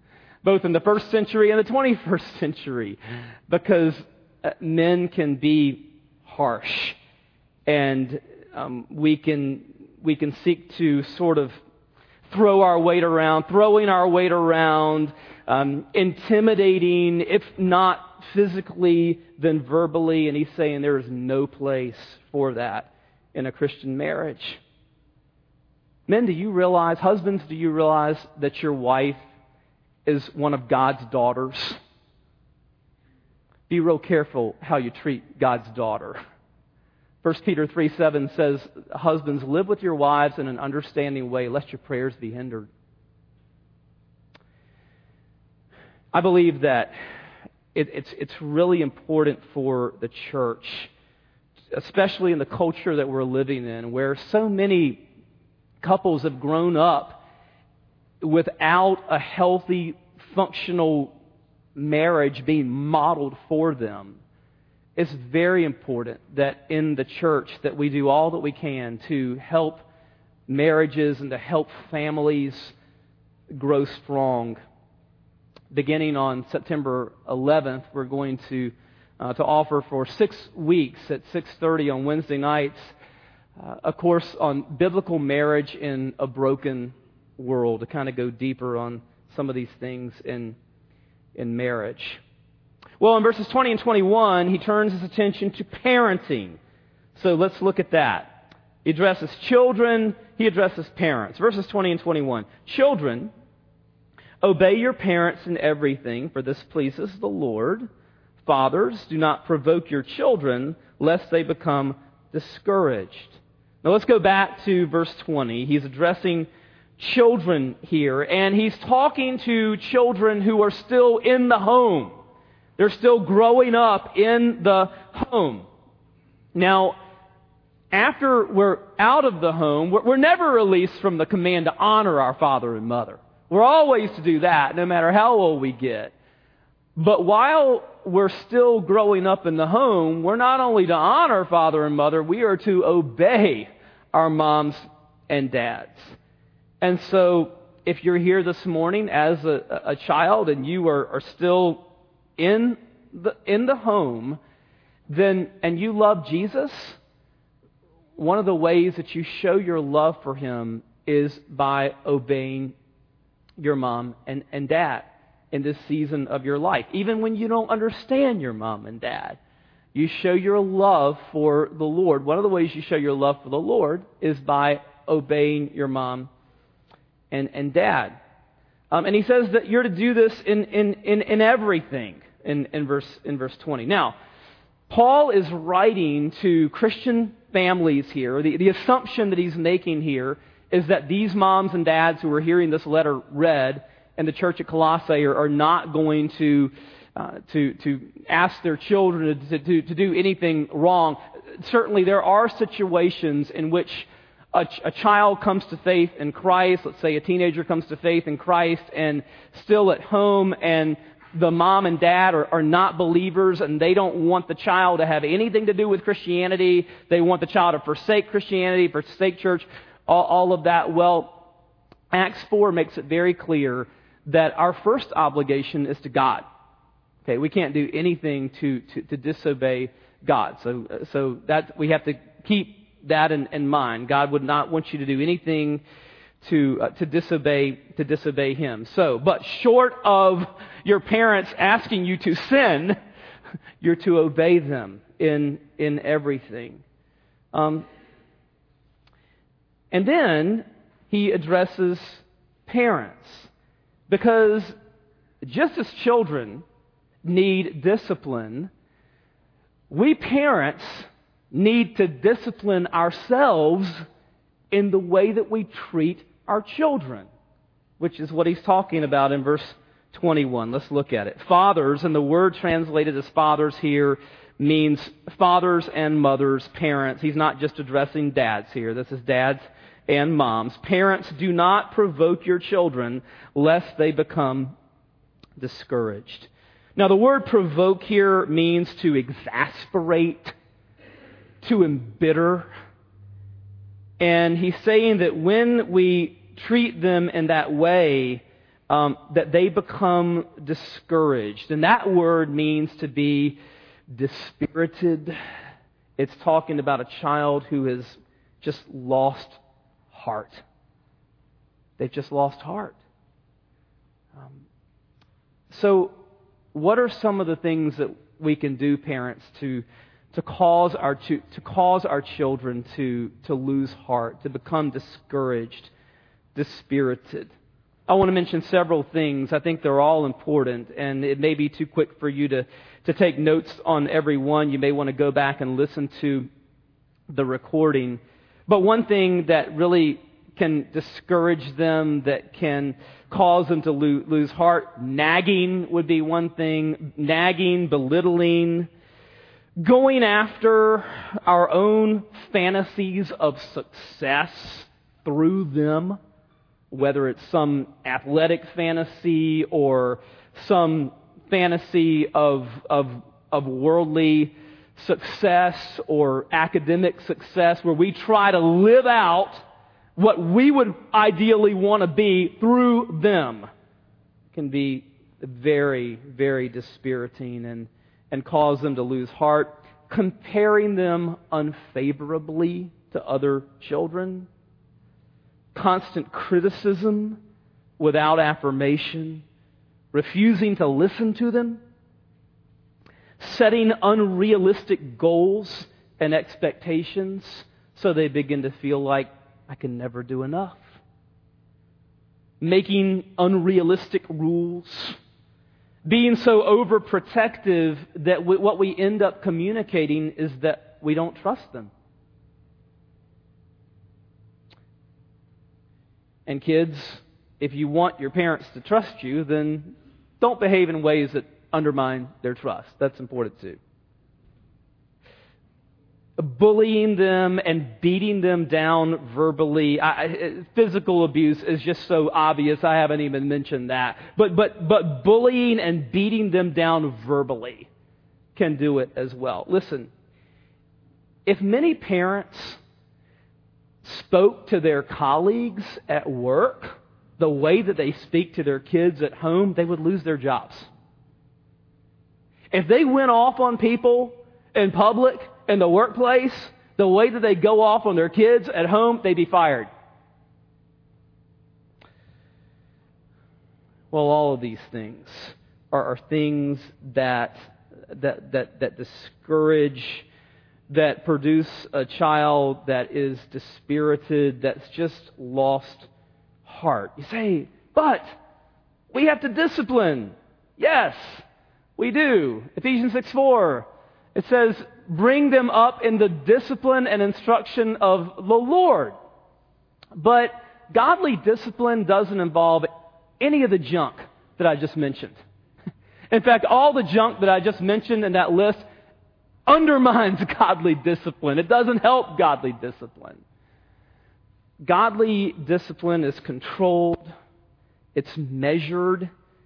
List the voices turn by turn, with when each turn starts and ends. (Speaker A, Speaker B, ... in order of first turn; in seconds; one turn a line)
Speaker A: 0.4-7.0
Speaker A: 7.7-11.6
Speaker A: 12.3-24.6
Speaker A: 26.1-29.2
Speaker A: 30.1-31.8
Speaker A: 33.7-36.2
Speaker A: 37.2-42.7
Speaker A: 46.1-46.9
Speaker A: 47.7-50.9
Speaker A: 51.7-55.0
Speaker A: 55.8-57.2
Speaker A: 58.2-61.1
Speaker A: 61.8-64.2
Speaker A: 65.0-69.8
Speaker A: 70.5-72.7
Speaker A: 73.5-74.6
Speaker A: 75.7-82.9
Speaker A: 83.6-90.6
Speaker A: 91.3-92.2
Speaker A: 93.0-96.6
Speaker A: 97.1-103.3
Speaker A: 104.4-107.9
Speaker A: 108.4-122.1
Speaker A: 122.8-125.7
Speaker A: 126.5-127.0
Speaker A: 127.9-136.1
Speaker A: 136.9-146.2
Speaker A: 146.8-151.8
Speaker A: 152.4-154.4
Speaker A: 155.1-157.0
Speaker A: 158.2-162.7
Speaker A: 163.6-169.4
Speaker A: 169.9-176.3
Speaker A: 177.3-178.1
Speaker A: 178.9-184.2
Speaker A: 184.9-221.3
Speaker A: 222.1-226.5
Speaker A: 227.2-235.8
Speaker A: 236.4-242.9
Speaker A: 243.8-246.8
Speaker A: 247.5-247.8
Speaker A: 249.9-253.5
Speaker A: 254.1-254.8
Speaker A: 255.4-256.6
Speaker A: 257.2-258.7
Speaker A: 259.9-264.0
Speaker A: 264.7-267.3
Speaker A: 268.0-284.7
Speaker A: 285.6-290.5
Speaker A: 291.6-292.7
Speaker A: 294.2-303.6
Speaker A: 304.1-305.4
Speaker A: 306.2-309.6
Speaker A: 310.1-310.6
Speaker A: 312.0-313.0
Speaker A: 315.7-316.1
Speaker A: 316.7-325.9
Speaker A: 326.5-327.5
Speaker A: 328.1-336.5
Speaker A: 337.3-348.9
Speaker A: 349.8-356.2
Speaker A: 356.9-369.6
Speaker A: 370.2-373.7
Speaker A: 374.5-384.5
Speaker A: 385.7-387.4
Speaker A: 388.0-389.4
Speaker A: 390.1-391.8
Speaker A: 393.4-401.0
Speaker A: 402.6-405.2
Speaker A: 406.0-411.9
Speaker A: 416.5-423.8
Speaker A: 426.4-437.9
Speaker A: 438.6-440.1
Speaker A: 441.4-442.8
Speaker A: 444.0-450.9
Speaker A: 452.7-459.9
Speaker A: 464.1-470.2
Speaker A: 470.9-476.1
Speaker A: 476.6-478.4
Speaker A: 479.1-481.4
Speaker A: 482.0-489.1
Speaker A: 490.1-492.9
Speaker A: 493.4-495.4
Speaker A: 496.3-498.8
Speaker A: 499.6-503.4
Speaker A: 504.8-507.3
Speaker A: 508.1-509.3